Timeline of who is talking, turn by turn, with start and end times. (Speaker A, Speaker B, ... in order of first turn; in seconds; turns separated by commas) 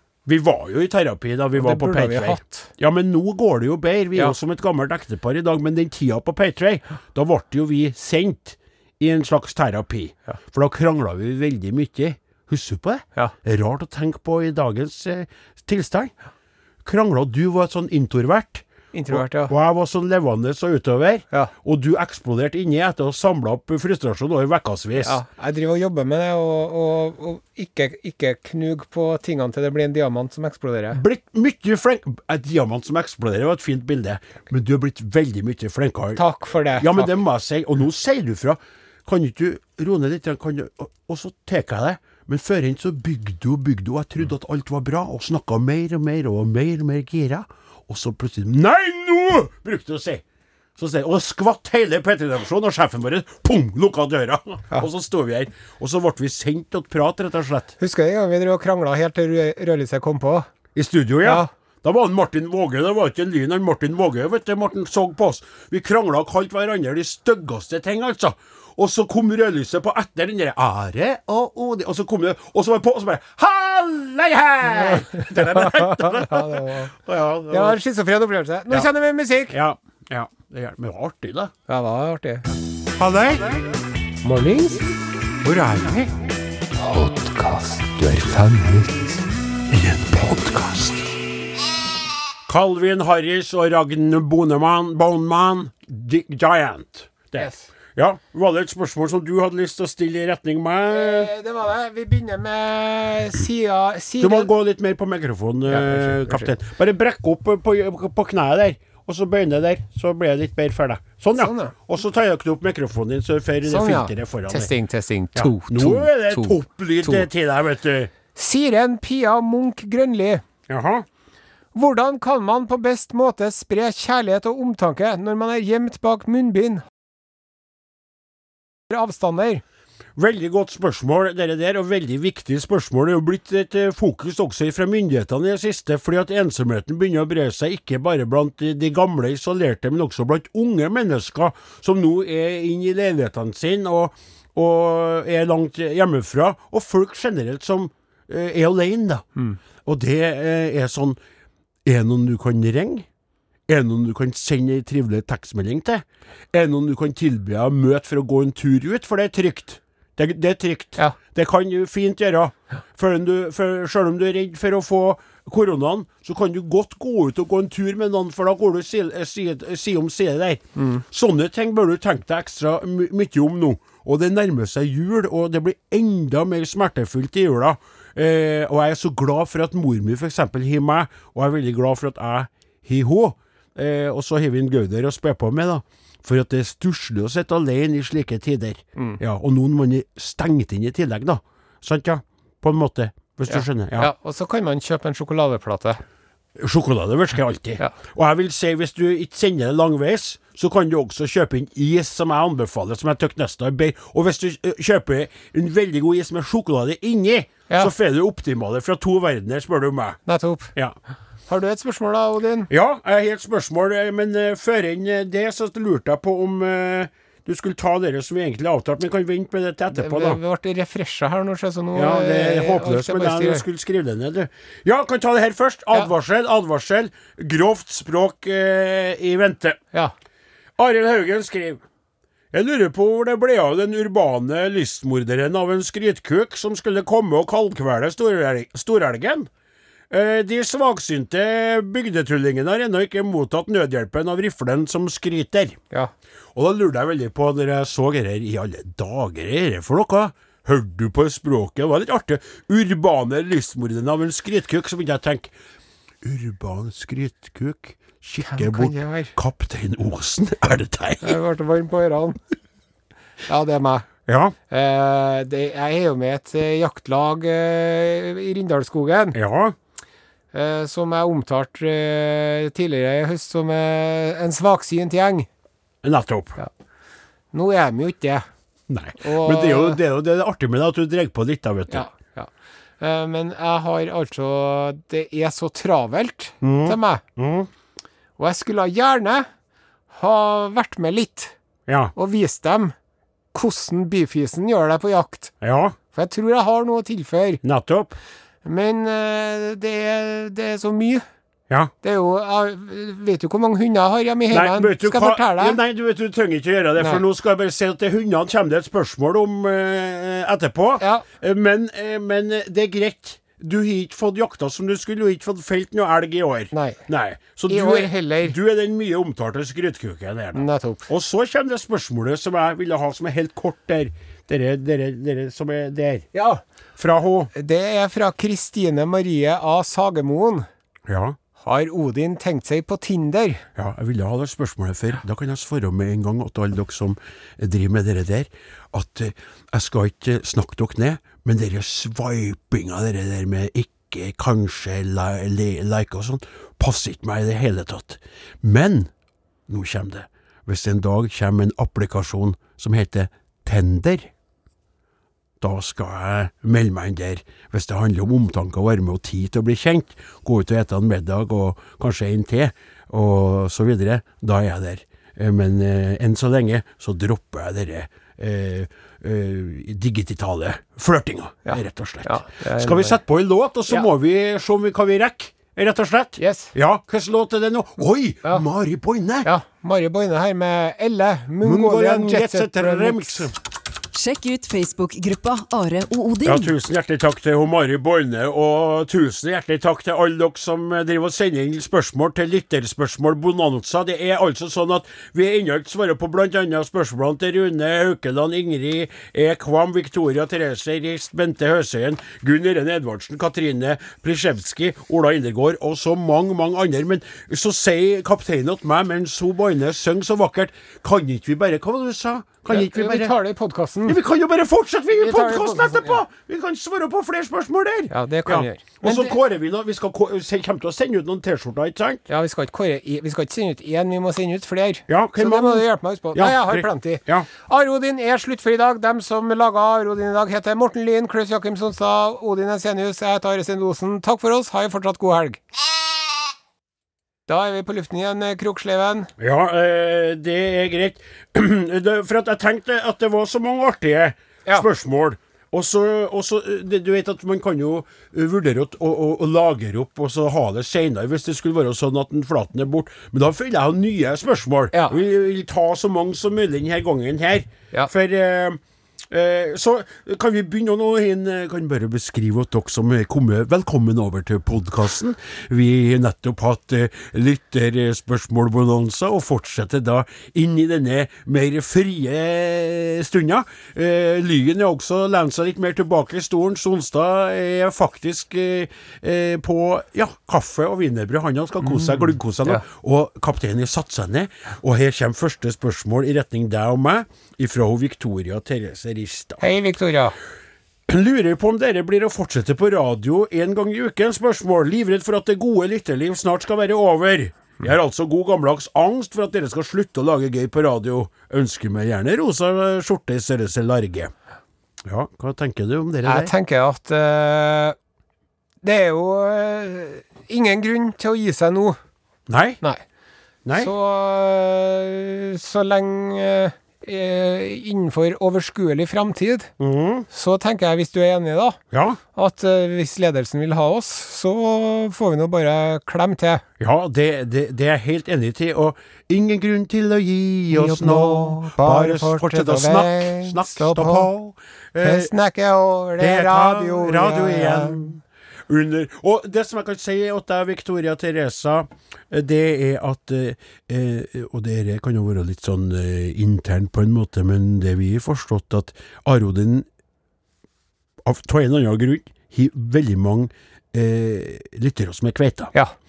Speaker A: 0.2-16.1, Speaker B: 1.6-2.7, Speaker A: 16.8-25.2, Speaker B: 18.9-19.5, Speaker B: 25.0-31.0, Speaker A: 30.9-36.2, Speaker B: 36.1-37.1, Speaker A: 36.8-50.2, Speaker A: 50.8-57.7, Speaker B: 57.8-60.5, Speaker A: 60.7-77.8, Speaker B: 61.2-61.5, Speaker B: 74.8-76.9, Speaker B: 77.5-79.5, Speaker A: 79.5-81.5, Speaker B: 81.7-82.5, Speaker A: 83.0-83.7, Speaker B: 84.2-84.8, Speaker A: 85.4-86.2, Speaker B: 86.8-89.2, Speaker A: 89.7-91.1, Speaker A: 92.5-101.3, Speaker B: 97.4-97.7, Speaker B: 100.9-104.5, Speaker A: 104.2-114.7, Speaker B: 105.7-106.5, Speaker B: 111.4-111.7, Speaker B: 113.7-117.3, Speaker A: 115.3-118.1, Speaker B: 118.3-120.4, Speaker A: 120.7-121.0, Speaker B: 121.7-126.8, Speaker B: 128.9-129.6, Speaker A: 130.2-149.2, Speaker A: 149.8-151.2, Speaker A: 151.8-153.1, Speaker A: 153.7-194.1, Speaker B: 170.8-171.0, Speaker B: 193.5-196.0, Speaker A: 196.6-210.2, Speaker B: 210.2-210.7, Speaker B: 211.5-212.7, Speaker A: 212.7-220.4, Speaker B: 219.9-223.6, Speaker A: 221.9-229.8, Speaker A: 230.8-231.8, Speaker A: 232.5-239.5, Speaker A: 240.1-245.8, Speaker A: 246.5-255.5, Speaker A: 256.2-261.4, Speaker B: 258.4-259.3, Speaker B: 261.2-262.4, Speaker B: 263.5-264.1, Speaker A: 264.2-264.5, Speaker B: 264.7-269.4, Speaker A: 269.3-269.8, Speaker B: 270.5-275.5, Speaker A: 276.0-276.6, Speaker B: 277.5-278.5, Speaker A: 278.9-282.1, Speaker B: 279.2-280.0, Speaker B: 281.9-287.2, Speaker A: 286.6-287.7, Speaker B: 288.4-289.5, Speaker B: 290.1-291.5, Speaker A: 291.9-292.1, Speaker B: 292.1-292.9, Speaker B: 293.5-295.5, Speaker A: 295.6-295.9, Speaker B: 296.1-297.6, Speaker A: 297.6-298.1, Speaker B: 298.6-301.2, Speaker B: 302.0-305.8, Speaker A: 304.5-326.3, Speaker B: 311.0-311.2, Speaker B: 316.7-317.0, Speaker B: 317.7-318.6, Speaker B: 320.5-321.1, Speaker B: 326.3-326.6, Speaker A: 327.0-327.5, Speaker B: 327.5-330.7, Speaker A: 331.1-331.4, Speaker B: 331.6-333.6, Speaker A: 333.8-349.1, Speaker A: 349.7-354.3, Speaker A: 355.6-379.5, Speaker B: 371.6-373.2, Speaker B: 376.4-376.7, Speaker B: 379.4-383.5, Speaker A: 381.6-383.5, Speaker C: 384.1-386.7, Speaker A: 386.4-413.3, Speaker B: 412.7-414.2, Speaker A: 414.1-422.2, Speaker B: 415.1-416.2, Speaker B: 418.1-419.4, Speaker B: 422.3-435.6, Speaker A: 425.1-427.5, Speaker B: 437.5-439.3, Speaker A: 439.4-489.6, Speaker B: 481.8-482.8, Speaker B: 489.6-490.4, Speaker A: 491.1-504.3, Speaker A: 505.0-506.5, Speaker B: 506.2-507.9, Speaker B: 508.8-512.0, Speaker A: 512.5-512.8, Speaker A: 513.6-513.9, Speaker B: 513.8-519.7, Speaker A: 519.8-520.2, Speaker B: 520.3-521.8, Speaker A: 521.9-522.2, Speaker B: 522.3-526.6, Speaker A: 526.8-535.3, Speaker B: 530.7-534.3, Speaker B: 535.0-538.2, Speaker A: 536.2-549.9, Speaker A: 551.2-555.7